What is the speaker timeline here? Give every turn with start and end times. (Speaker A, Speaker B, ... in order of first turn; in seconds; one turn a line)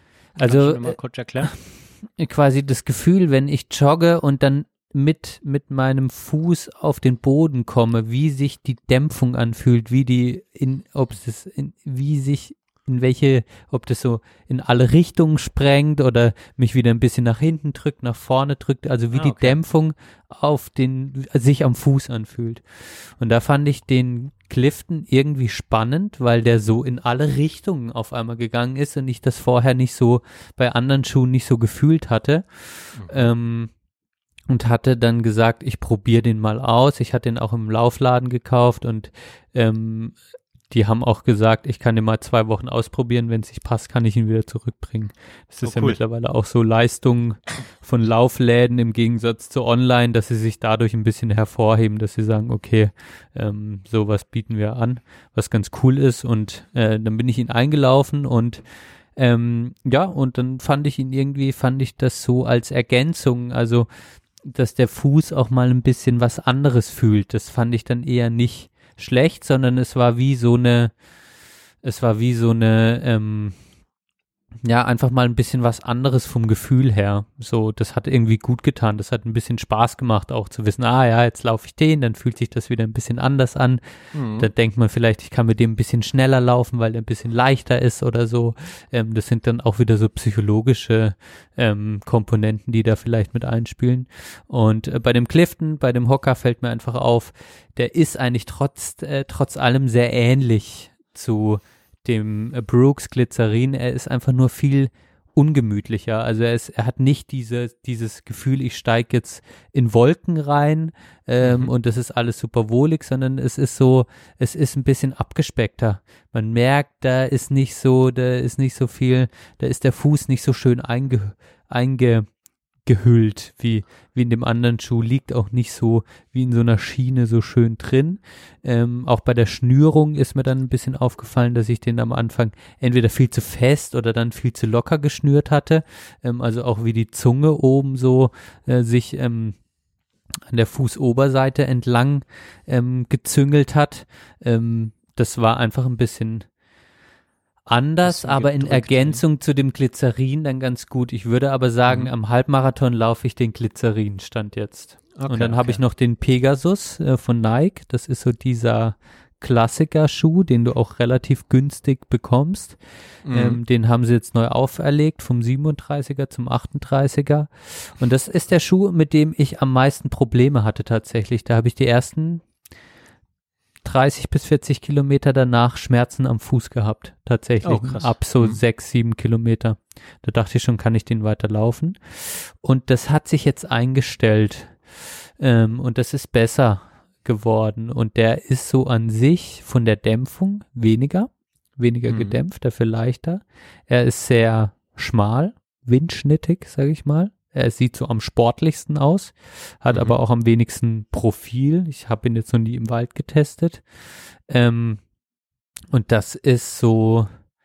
Speaker A: 0.4-1.5
Speaker B: 0.4-33.7
Speaker A: 19.1-19.6
Speaker A: 33.0-33.3
Speaker B: 34.5-40.2
Speaker B: 40.7-58.6
Speaker A: 45.6-46.0
Speaker B: 59.2-63.9
Speaker B: 64.4-70.9
Speaker B: 71.8-73.6
Speaker B: 74.6-83.8
Speaker A: 84.1-84.5
Speaker B: 84.4-122.3
Speaker A: 111.4-111.7
Speaker B: 122.8-139.6
Speaker B: 140.5-146.5
Speaker B: 147.7-162.8
Speaker A: 148.0-149.2
Speaker A: 155.2-155.8
Speaker A: 163.2-163.6
Speaker B: 163.3-172.4
Speaker B: 173.8-184.8
Speaker A: 177.6-178.6
Speaker B: 185.4-203.8
Speaker A: 192.1-192.4
Speaker A: 199.9-200.2
Speaker B: 204.5-205.0
Speaker B: 205.9-207.3